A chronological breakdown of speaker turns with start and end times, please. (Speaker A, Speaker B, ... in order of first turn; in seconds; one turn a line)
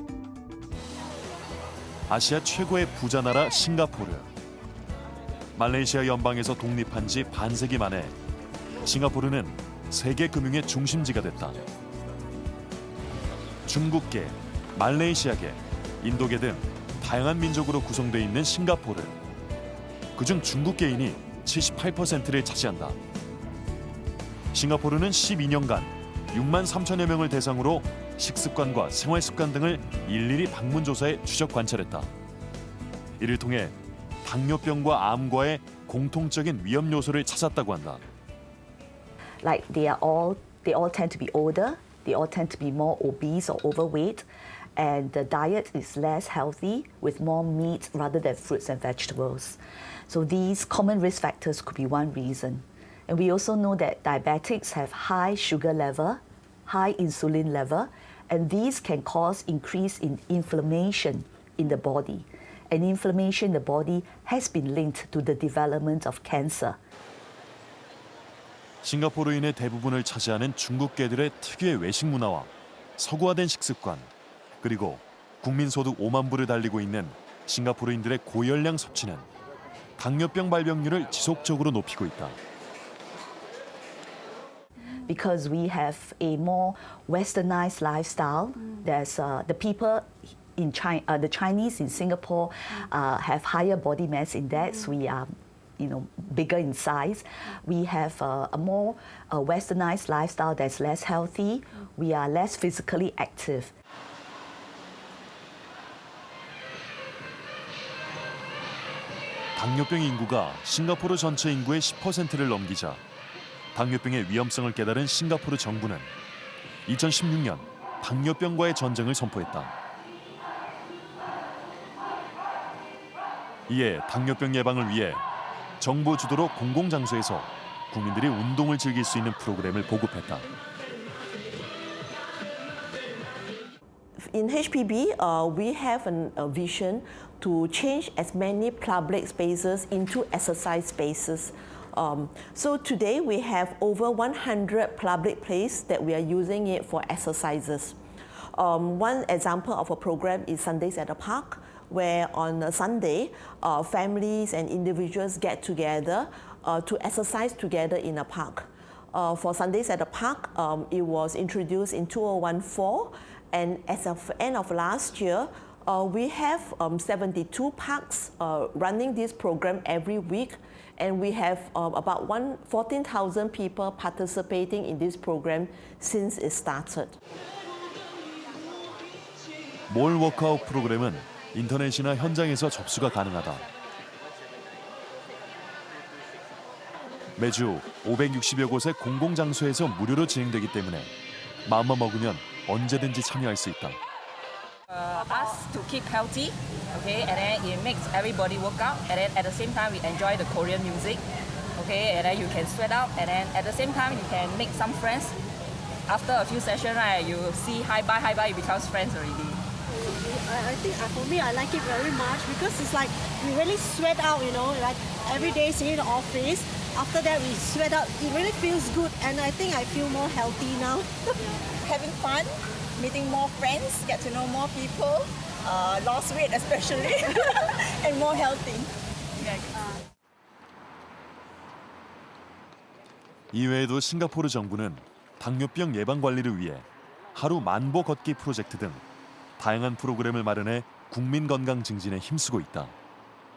Speaker A: 2.1-4.3
Speaker A: 5.5-8.1
Speaker A: 8.8-11.6
Speaker A: 13.7-19.1
Speaker A: 20.1-23.0
Speaker A: 24.5-32.1
Speaker A: 33.2-38.0
Speaker B: 39.4-66.8
Speaker A: 68.8-74.1
Speaker A: 74.6-79.3
Speaker A: 80.0-82.4
Speaker B: 84.9-103.7
Speaker A: 109.5-113.0
Speaker A: 113.7-116.1
Speaker A: 116.8-119.7
Speaker A: 123.7-125.2
Speaker A: 125.8-130.5
Speaker C: 134.2-148.0
Speaker C: 148.5-177.2
Speaker A: 179.9-183.6
Speaker A: 187.4-191.1
Speaker A: 191.7-194.0
Speaker D: 194.9-201.2
Speaker D: 201.8-205.4
Speaker D: 206.1-209.6
Speaker E: 209.9-221.6
Speaker F: 221.7-228.9
Speaker A: 233.5-239.0
Speaker A: 239.6-242.9